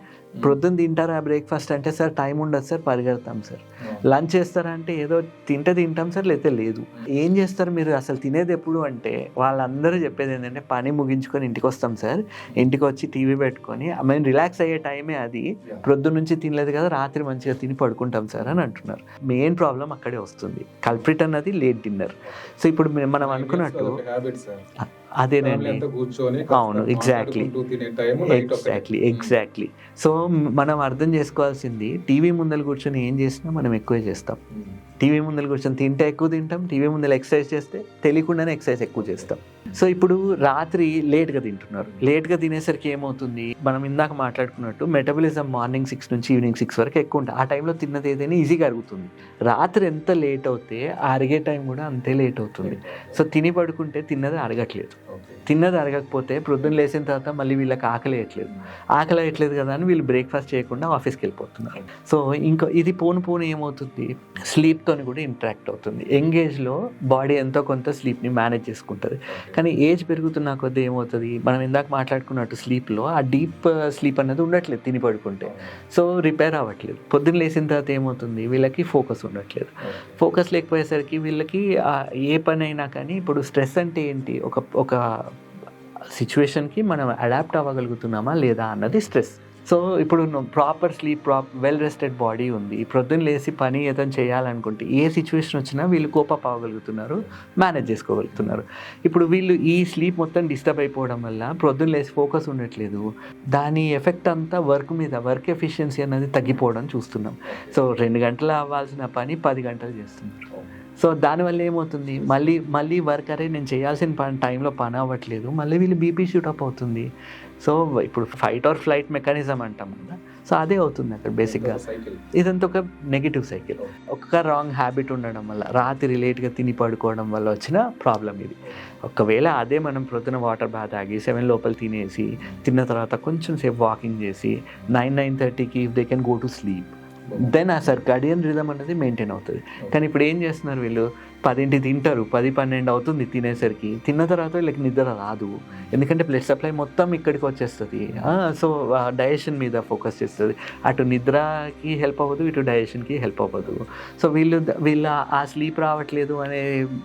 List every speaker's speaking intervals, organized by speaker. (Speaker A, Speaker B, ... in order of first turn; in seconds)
Speaker A: 0.4-24.0, 25.2-25.8, 26.5-27.5, 28.3-34.4, 35.0-85.0, 86.1-110.5, 111.0-117.1, 117.6-121.8, 122.3-156.7
Speaker B: 23.2-24.6, 25.4-29.4, 34.5-34.8, 39.0-39.7, 52.6-53.2, 55.1-55.4, 69.3-69.6, 75.4-75.7, 79.8-80.2, 98.3-98.6, 107.5-107.8, 121.4-122.2, 137.3-137.5